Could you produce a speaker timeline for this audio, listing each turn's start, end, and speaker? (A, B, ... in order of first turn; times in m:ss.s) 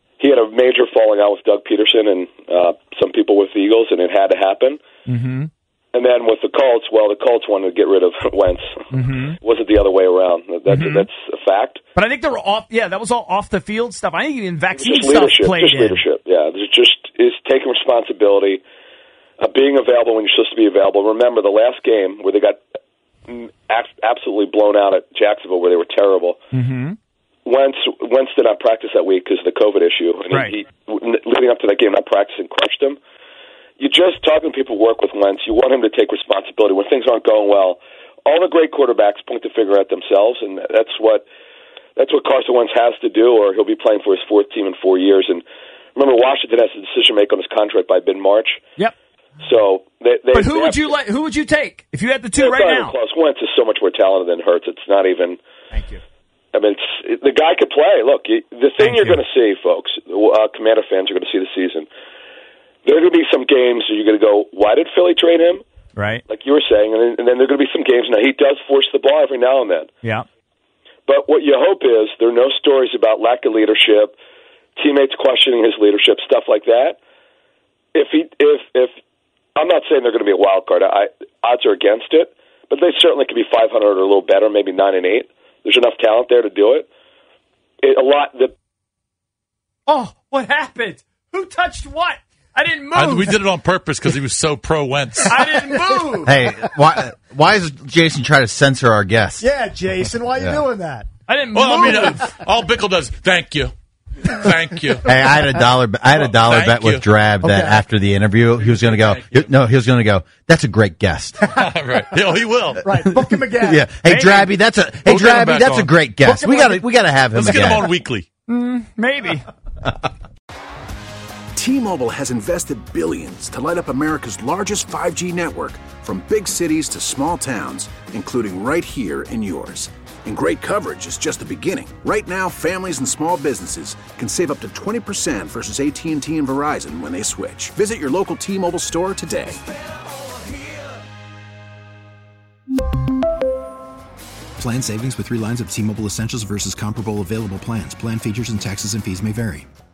0:00.2-0:04.8 A
0:05.1-0:05.5 B
0:05.9-0:08.9 A
0:08.9-0:09.4 B
0:09.4-0:11.8 A
0:10.7-0:11.0 B
0:11.9-0:16.0 B
0:14.7-0:18.6 A
0:19.4-0:22.6 A
0:23.3-0:26.4 A
0:26.5-0:27.0 B
0:27.4-0:33.0 A
0:30.3-0:30.6 B
0:33.8-0:41.3 A
0:42.0-0:45.4 A
0:46.0-0:48.6 A
0:49.4-0:51.0 A
0:50.3-0:53.0 B
0:52.4-0:55.4 A
0:55.7-0:56.0 B
0:56.5-1:01.9 A
0:58.8-0:59.2 B
1:02.8-1:05.6 A
1:06.0-1:06.2 B
1:06.3-1:09.9 A
1:11.1-1:14.2 A
1:14.8-1:17.0 A
1:17.9-1:18.9 A
1:19.6-1:26.9 A
1:27.8-1:28.5 A
1:29.9-1:33.3 B
1:32.9-1:35.4 C
1:35.2-1:36.3 B
1:36.2-1:39.4 D
1:39.4-1:41.1 E
1:40.3-1:40.6 D
1:41.3-1:42.3 B
1:41.5-1:43.7 C
1:44.3-1:45.1 C
1:45.0-1:51.4 D
1:46.1-1:47.2 C
1:47.4-1:47.8 E
1:48.6-1:49.5 C
1:51.5-1:52.8 C
1:52.8-1:53.9 E
1:52.9-1:57.9 D
1:54.0-1:54.5 B
1:55.0-1:56.0 C
1:56.2-1:56.8 E
1:57.3-1:58.2 C
1:57.4-1:57.8 E
1:58.5-1:59.4 B
2:01.5-2:19.6 F
2:24.7-2:28.9 G